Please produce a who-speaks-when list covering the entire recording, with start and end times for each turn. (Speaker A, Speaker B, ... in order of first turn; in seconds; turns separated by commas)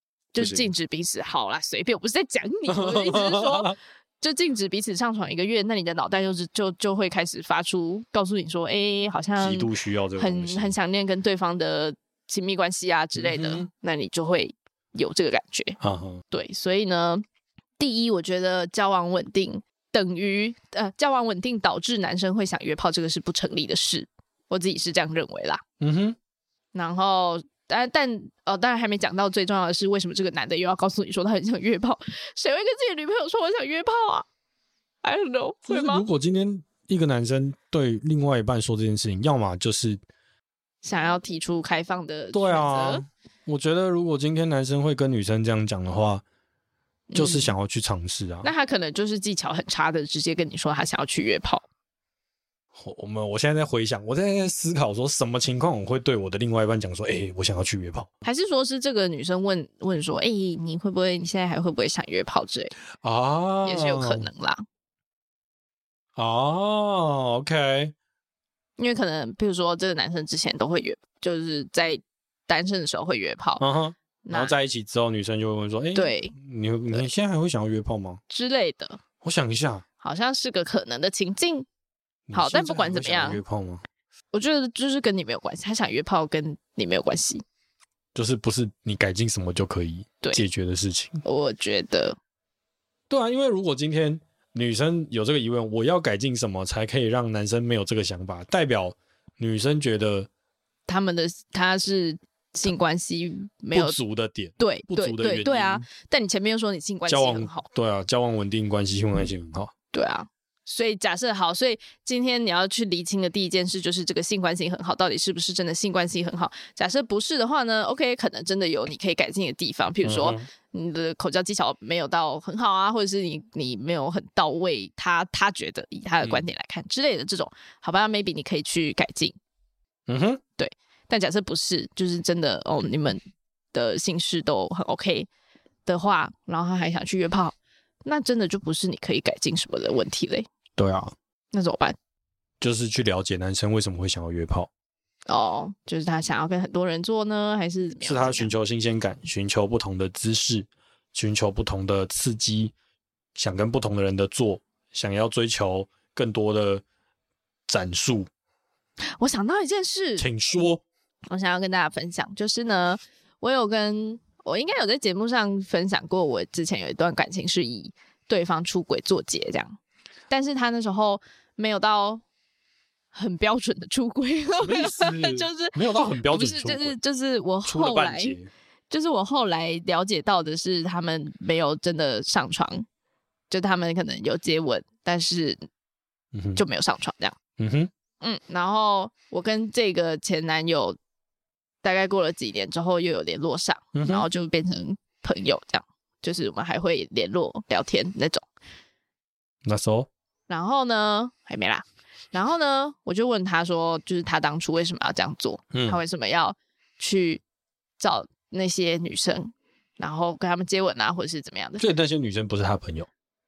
Speaker A: 0.3-15.8, Speaker B: 0.4-0.7, Speaker B: 2.7-3.8, Speaker B: 9.4-10.7, Speaker B: 13.2-13.7, Speaker B: 15.8-16.2, Speaker A: 16.3-17.2, Speaker A: 17.8-25.6, Speaker B: 25.8-26.2, Speaker A: 26.7-34.3, Speaker A: 35.0-36.0, Speaker B: 35.7-40.0, Speaker A: 40.8-43.0, Speaker B: 42.3-46.2, Speaker A: 47.1-47.5, Speaker B: 47.2-48.5, Speaker A: 48.4-51.7, Speaker B: 52.8-58.1, Speaker A: 58.2-62.7, Speaker B: 63.0-64.3, Speaker A: 63.6-64.6, Speaker B: 66.2-67.9, Speaker A: 68.8-73.6, Speaker B: 73.6-78.2, Speaker A: 74.2-74.5, Speaker A: 76.0-76.3, Speaker A: 78.3-79.0, Speaker B: 79.2-79.8, Speaker A: 80.0-81.7, Speaker B: 82.3-83.8, Speaker A: 82.3-83.4, Speaker A: 84.3-87.4, Speaker B: 88.2-91.2, Speaker A: 91.2-92.2, Speaker B: 93.1-100.3, Speaker A: 100.9-104.0, Speaker B: 103.7-105.8, Speaker A: 104.6-107.7, Speaker B: 107.1-109.7, Speaker A: 109.9-129.4, Speaker B: 120.0-120.5, Speaker B: 130.1-130.4, Speaker A: 130.6-133.2, Speaker A: 133.7-135.3, Speaker A: 135.9-140.5, Speaker B: 140.8-141.2, Speaker A: 141.5-142.0, Speaker B: 142.6-144.7, Speaker A: 145.3-148.5, Speaker B: 148.0-152.7, Speaker B: 153.3-156.8, Speaker B: 157.7-158.3, Speaker A: 159.2-160.3, Speaker B: 160.2-160.8, Speaker A: 161.3-169.8, Speaker A: 170.3-172.2, Speaker A: 173.1-178.4, Speaker B: 174.6-177.0, Speaker B: 177.7-178.5, Speaker A: 178.9-182.8, Speaker A: 183.5-185.6, Speaker B: 186.3-186.6, Speaker A: 186.6-187.4, Speaker B: 187.6-187.9, Speaker A: 188.2-191.0, Speaker A: 191.8-198.4, Speaker B: 193.9-194.3, Speaker B: 199.7-200.1, Speaker A: 200.5-207.4, Speaker B: 205.7-206.0, Speaker A: 208.0-211.8, Speaker B: 211.8-213.1